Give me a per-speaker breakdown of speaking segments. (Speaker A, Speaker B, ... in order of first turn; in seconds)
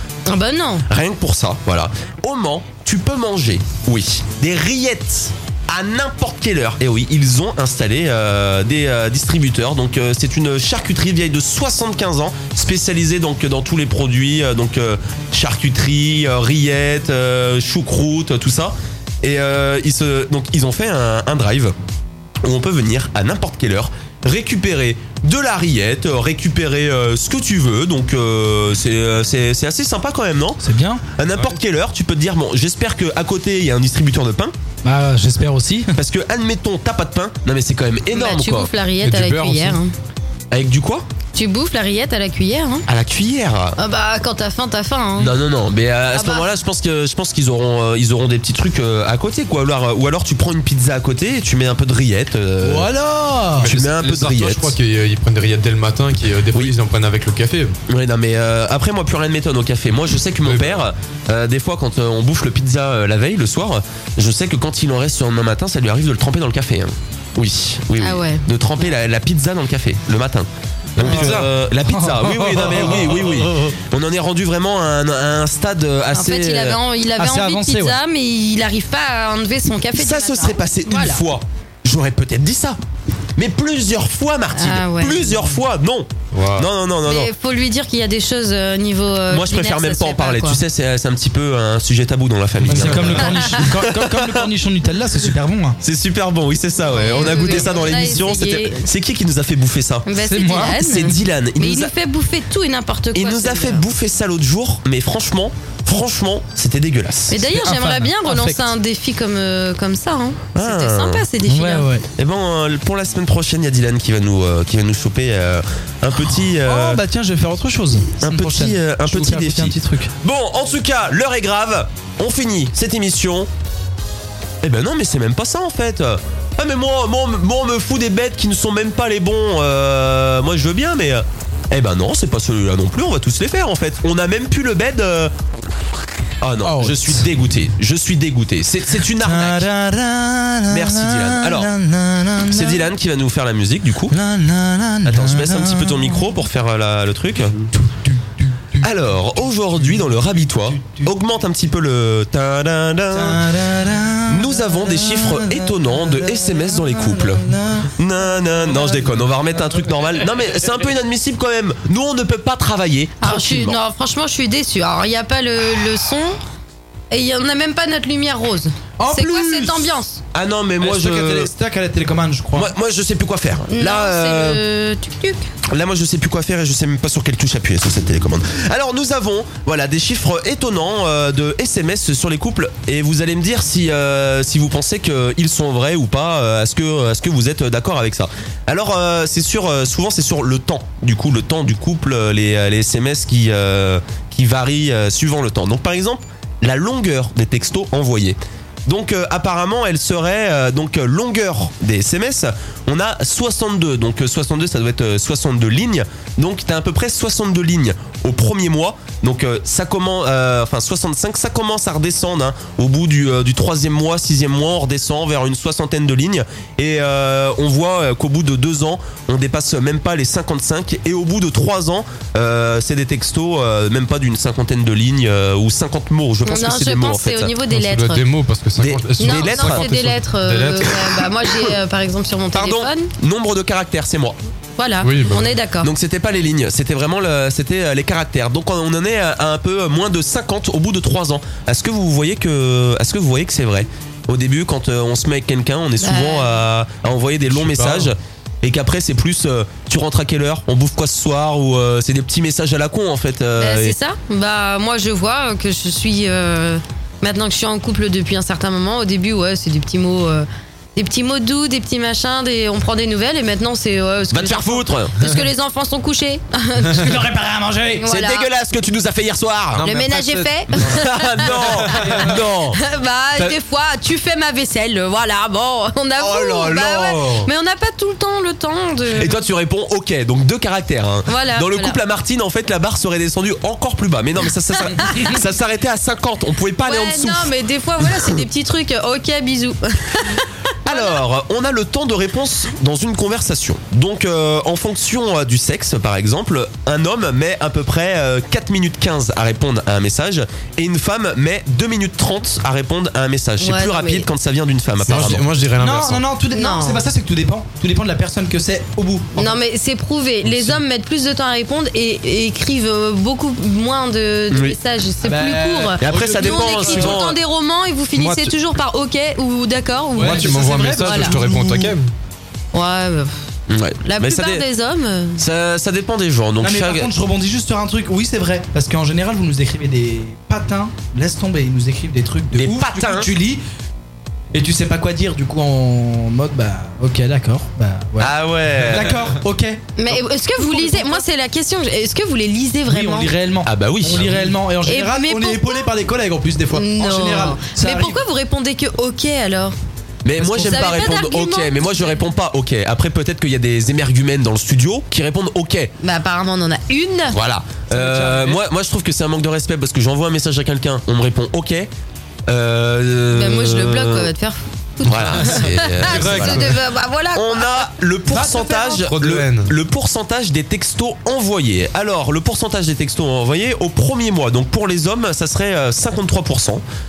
Speaker A: 0.3-0.9, 38.1-39.9, 41.4-42.9, 43.8-45.4, 46.1-46.5, 68.0-68.5, 76.1-81.2, 84.5-85.5, 87.0-90.6, 96.9-98.8, 100.1-103.8, 107.3-111.9, 163.2-166.4, 167.1-170.2, 173.7-175.5, 226.4-228.2, 229.2-233.1, 234.8-235.9, 246.0-246.6, 253.6-267.2, 268.0-268.5, 269.8-279.4, 281.3-282.0, 284.9-285.4, 286.8-291.2, 303.6-304.3, 306.5-307.1, 309.4-321.3, 322.7-323.4, 324.1-325.4, 340.0-343.3, 344.9-345.8, 346.7-349.8, 350.5-352.2, 356.0-357.4, 363.3-367.9
Speaker B: 0.9-21.8, 22.4-30.6, 31.2-34.5, 36.0-38.7, 40.5-41.1, 42.9-43.8, 45.2-52.9, 53.7-54.8, 57.9-76.8, 79.9-82.8, 83.4-87.3, 89.3-94.5, 95.8-100.1, 100.7-101.9, 103.1-107.5, 110.5-111.3, 112.2-117.0, 118.2-123.5, 124.6-135.3, 136.4-139.7, 140.7-141.7, 142.5-144.2, 145.1-147.7, 148.8-153.6, 154.3-163.8, 170.3-171.5, 172.5-174.6, 175.7-227.5, 228.8-229.9, 232.5-234.4, 235.8-254.0, 264.3-265.2, 268.1-269.9, 270.8-272.8, 276.2-277.5, 279.1-288.4, 290.9-305.5, 314.5-314.8, 316.0-317.4, 323.7-324.6, 325.4-327.1, 332.5-333.4, 338.2-339.2, 343.7-344.5, 350.2-355.9, 357.3-361.9, 362.5-364.3, 365.0-366.8, 367.3-376.8
Speaker C: 30.6-31.0, 34.8-36.0, 52.6-53.7, 71.0-73.7, 77.2-78.0, 92.7-95.8, 100.2-100.8, 107.5-108.7, 111.5-112.1, 116.6-120.1, 136.6-137.3, 139.2-142.9, 144.1-146.3, 147.7-148.9, 150.8-151.1, 153.1-159.6, 169.0-169.9, 170.8-172.7, 266.9-268.1, 305.8-309.5, 315.2-317.2, 320.1-321.9, 326.6-333.6, 334.5-341.2, 342.9-348.2, 350.4-351.0, 357.9-358.6, 368.3-369.1
Speaker D: 39.0-39.8, 53.6-57.8, 60.5-60.8, 71.0-71.5, 86.3-86.7, 92.6-93.3, 227.7-231.2, 235.0-235.5, 247.5-248.1, 269.8-272.3, 305.0-306.2, 318.2-318.5, 320.2-322.1, 365.4-366.8, 369.0-369.7